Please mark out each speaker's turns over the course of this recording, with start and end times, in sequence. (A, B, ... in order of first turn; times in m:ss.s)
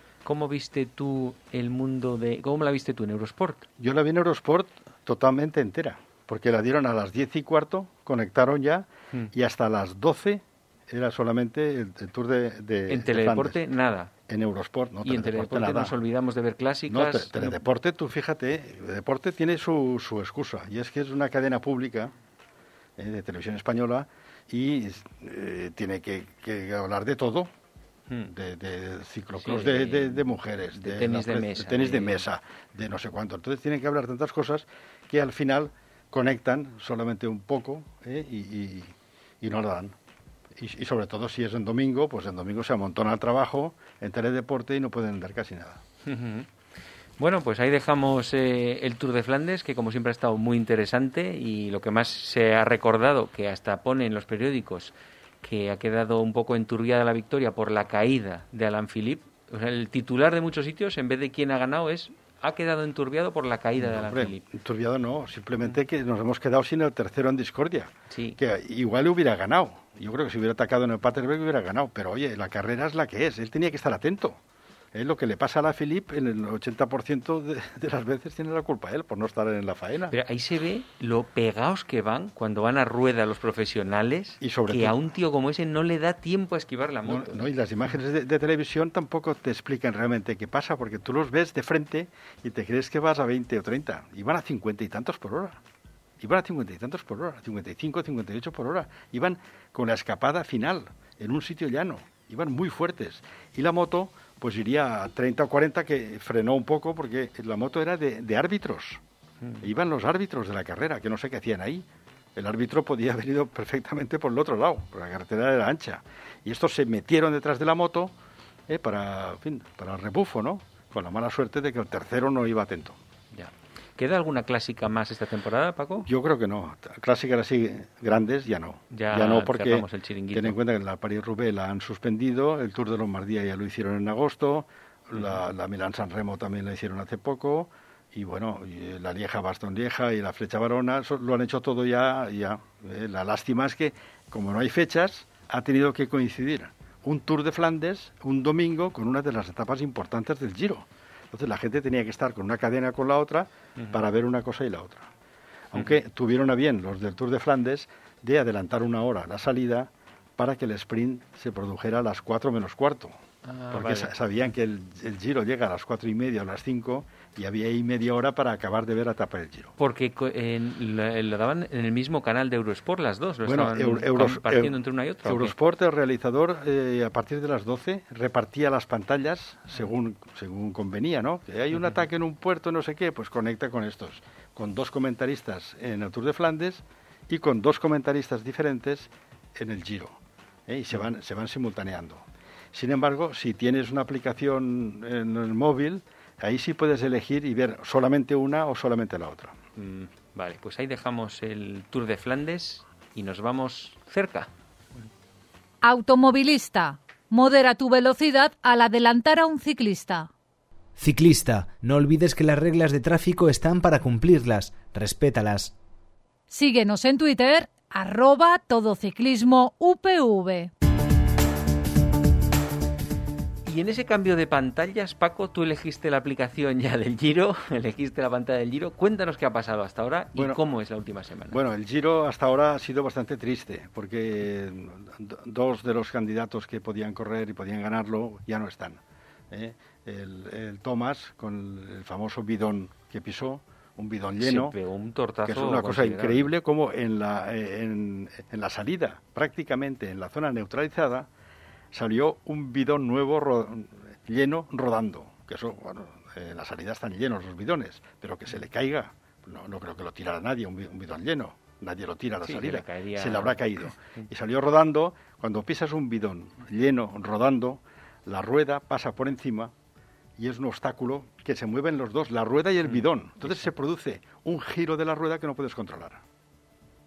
0:00.2-0:03.6 A
0:03.8-0:13.6 B
0:12.9-0:14.1 A
0:14.3-0:16.0 B
0:15.0-0:17.6 A
0:16.9-0:22.1 B
0:23.0-0:27.5 B
0:28.3-0:40.0 B
0:29.4-0:32.2 A
0:40.6-0:45.8 B
0:46.0-0:46.5 A
0:47.2-1:04.4 A
1:03.8-1:14.4 B
1:08.1-1:08.4 A
1:14.9-1:20.2 B
1:20.1-1:27.5 A
1:24.4-1:25.0 B
1:27.1-1:35.6 B
1:36.2-1:49.0 B
1:49.6-1:58.1 B
1:58.7-2:03.0 B
2:03.3-2:06.1 A
2:06.1-2:35.1 B
2:08.9-2:10.6 A
2:35.7-2:43.2 B
2:43.4-2:44.1 A
2:43.7-2:49.7 B
2:49.8-2:55.5 A
2:53.4-3:19.6 B
3:19.8-3:24.5 A
3:25.8-3:30.3 C
3:31.0-3:35.8 D
3:36.5-3:40.7 C
3:43.7-3:51.6 A
3:50.4-3:50.6 B
3:51.5-4:04.8 B
4:04.4-4:06.5 A
4:05.5-4:11.3 B
4:11.9-4:29.7 B
4:22.4-4:23.6 A
4:30.4-4:36.2 B